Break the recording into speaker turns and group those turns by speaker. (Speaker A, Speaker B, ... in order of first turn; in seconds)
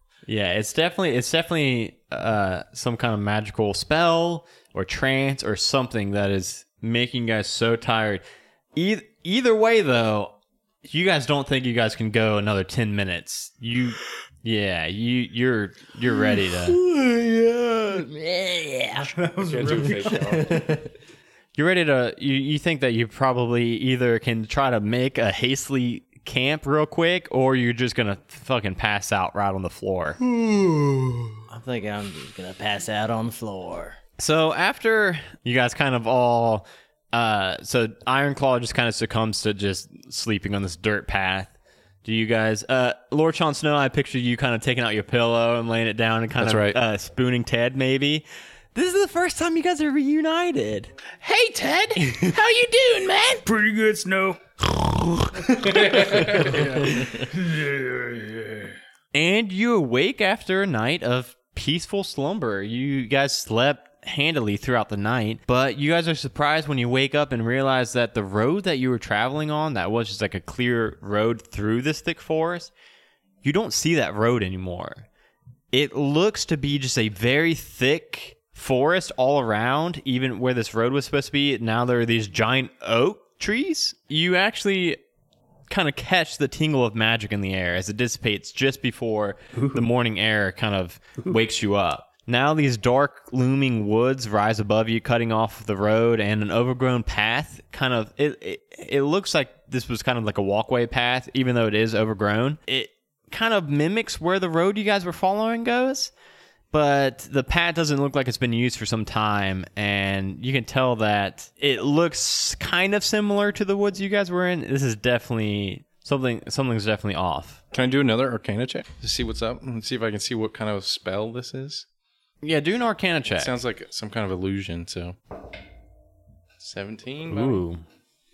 Speaker A: 0.2-8.2, 8.7-16.8, 21.6-30.2, 34.2-50.9, 52.0-52.3, 59.1-72.7, 73.4-75.0, 75.7-85.0, 85.7-106.1, 106.7-117.6, 122.4-123.5, 127.3-127.8
Speaker B: 16.2-19.1, 20.0-20.9, 31.5-34.0
Speaker C: 19.1-20.5, 53.4-54.4, 55.5-58.8
Speaker D: 19.4-20.7, 46.4-46.8, 55.6-57.0, 117.7-121.8, 123.3-125.2, 126.6-127.6
Speaker E: 51.2-53.4